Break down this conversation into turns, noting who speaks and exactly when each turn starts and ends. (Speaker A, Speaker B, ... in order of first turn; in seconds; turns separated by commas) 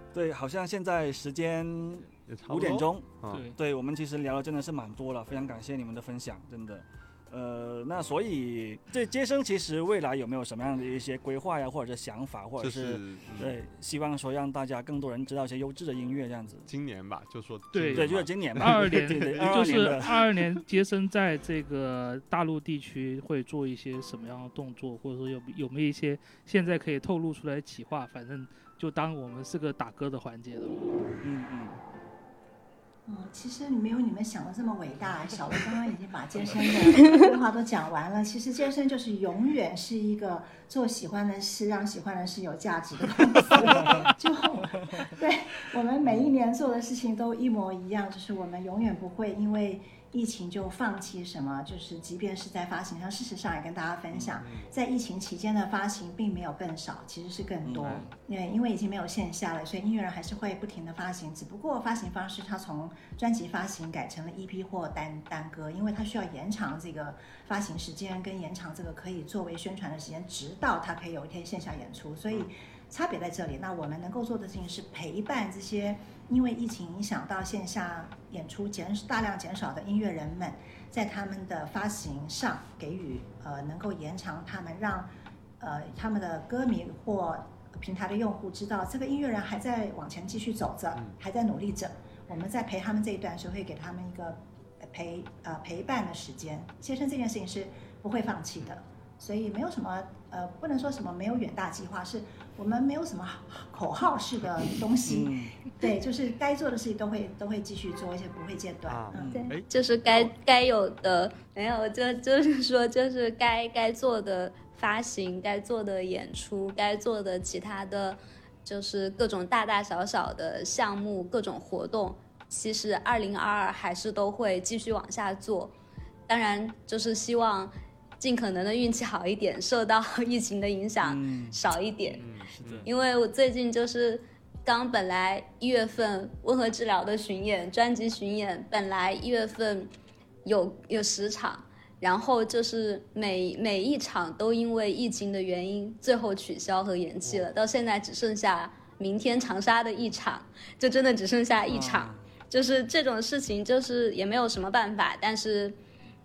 Speaker A: 0.1-16.7, Speaker B: 2.2-3.5, Speaker C: 3.3-3.6, Speaker B: 12.6-13.6, Speaker B: 16.7-20.3, Speaker C: 17.7-30.8, Speaker A: 17.9-20.2, Speaker A: 31.2-31.8, Speaker D: 33.0-109.4, Speaker C: 43.6-44.1, Speaker B: 54.1-54.7, Speaker A: 57.6-58.1, Speaker A: 105.1-105.5, Speaker B: 108.9-110.3, Speaker A: 109.1-109.5, Speaker E: 109.2-125.7, Speaker E: 126.3-132.2, Speaker A: 131.0-131.6, Speaker B: 132.1-132.9, Speaker A: 132.1-132.9, Speaker E: 132.8-139.9, Speaker E: 140.4-155.8, Speaker A: 151.7-152.2